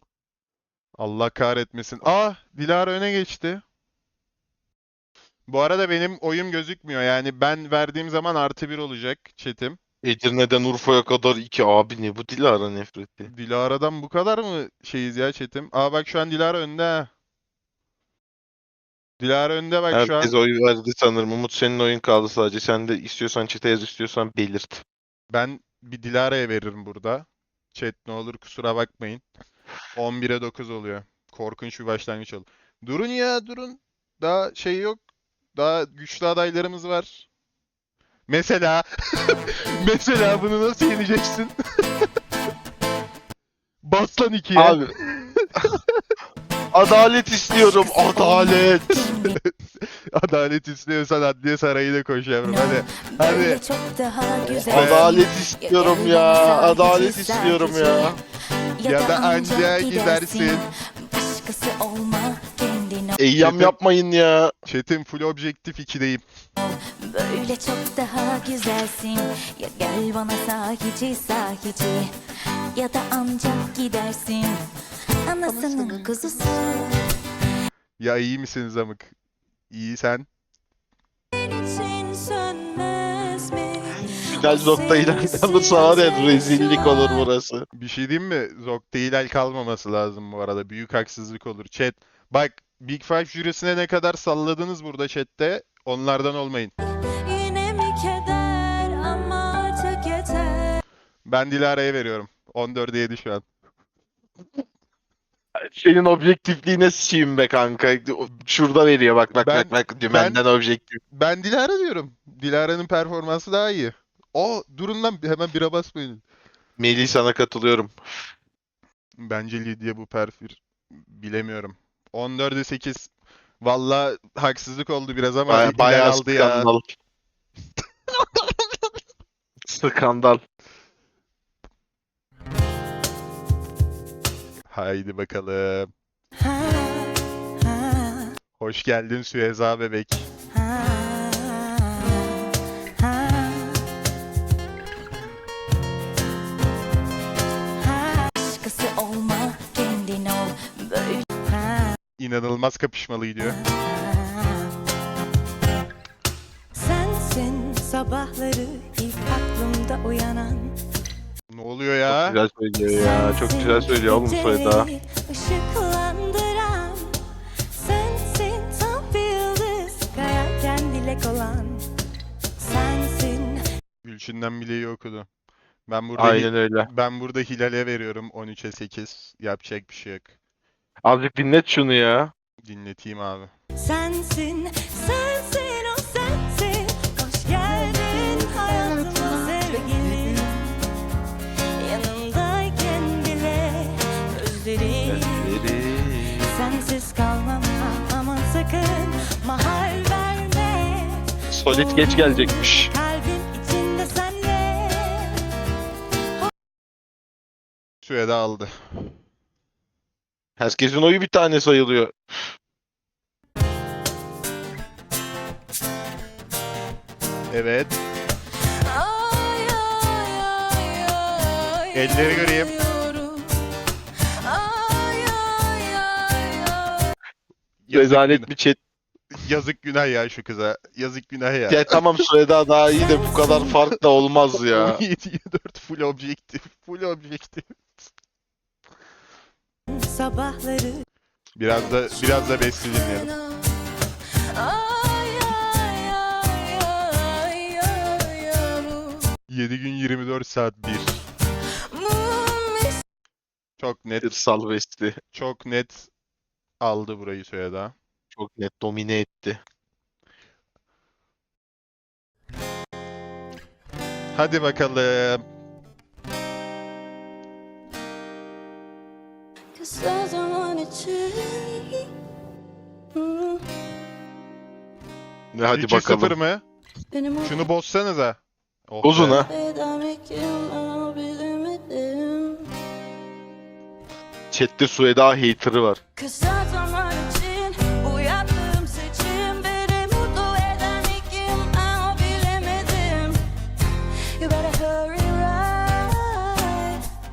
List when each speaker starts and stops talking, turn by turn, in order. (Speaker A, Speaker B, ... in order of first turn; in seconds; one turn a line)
Speaker A: 1.0-3.6
Speaker A: 5.5-9.8
Speaker B: 10.0-13.3
Speaker A: 13.3-17.1
Speaker A: 19.2-20.4
Speaker B: 19.9-24.8
Speaker A: 25.3-29.2
Speaker A: 29.9-35.0
Speaker A: 35.5-37.3
Speaker A: 38.3-41.5
Speaker A: 43.8-45.7
Speaker B: 44.5-44.9
Speaker B: 46.7-49.1
Speaker C: 47.6-49.4
Speaker A: 49.4-53.6
Speaker C: 52.4-58.2
Speaker B: 54.5-58.2
Speaker A: 54.7-55.1
Speaker C: 58.8-63.2
Speaker A: 58.8-60.6
Speaker B: 63.2-64.5
Speaker A: 63.4-63.7
Speaker A: 64.7-66.2
Speaker C: 66.6-72.1
Speaker C: 72.7-74.6
Speaker C: 75.2-76.9
Speaker A: 75.4-76.2
Speaker A: 78.0-79.1
Speaker A: 79.7-80.3
Speaker C: 81.3-87.3
Speaker B: 84.3-87.7
Speaker A: 87.7-96.7
Speaker C: 97.2-100.8
Speaker A: 101.2-103.5
Speaker B: 105.6-111.0
Speaker A: 109.4-110.4
Speaker A: 111.1-116.2
Speaker B: 116.8-117.9
Speaker A: 119.2-126.7
Speaker B: 125.5-126.9
Speaker B: 129.7-130.4
Speaker A: 134.7-135.9
Speaker C: 136.4-138.3
Speaker A: 138.6-140.3
Speaker C: 140.5-143.8
Speaker C: 147.8-151.9
Speaker A: 152.2-153.6
Speaker C: 153.4-154.7
Speaker C: 156.7-160.8
Speaker A: 161.5-162.4
Speaker B: 162.1-164.9
Speaker C: 162.9-167.2
Speaker C: 167.7-171.8
Speaker C: 172.6-173.6
Speaker A: 174.0-175.3
Speaker A: 175.9-180.3
Speaker B: 176.2-176.9
Speaker B: 181.0-182.3
Speaker A: 182.6-183.5
Speaker C: 183.8-190.8
Speaker C: 191.8-195.6
Speaker B: 195.1-196.6
Speaker C: 196.3-205.4
Speaker B: 201.5-202.9
Speaker A: 208.0-208.7
Speaker B: 210.6-212.5
Speaker A: 217.5-217.9
Speaker C: 218.8-223.6
Speaker A: 221.9-222.7
Speaker C: 224.4-227.1
Speaker A: 227.8-228.5
Speaker B: 227.9-228.8
Speaker A: 229.3-232.0
Speaker B: 231.7-235.0
Speaker C: 233.0-233.6
Speaker A: 234.6-238.1
Speaker C: 239.9-241.0
Speaker A: 241.6-243.3
Speaker C: 242.1-243.7
Speaker C: 244.5-249.3
Speaker A: 249.5-251.2
Speaker C: 251.9-253.0
Speaker A: 253.8-254.4
Speaker B: 254.2-255.2
Speaker A: 255.3-256.1
Speaker A: 256.8-257.9
Speaker B: 258.4-259.6
Speaker A: 264.3-265.4
Speaker C: 269.8-272.0
Speaker C: 273.1-273.5
Speaker B: 275.5-276.4
Speaker A: 275.7-276.6
Speaker C: 277.1-277.5
Speaker A: 277.4-279.4
Speaker B: 279.0-279.5
Speaker C: 279.5-282.6
Speaker B: 284.5-286.0
Speaker C: 286.2-293.4
Speaker C: 294.4-297.0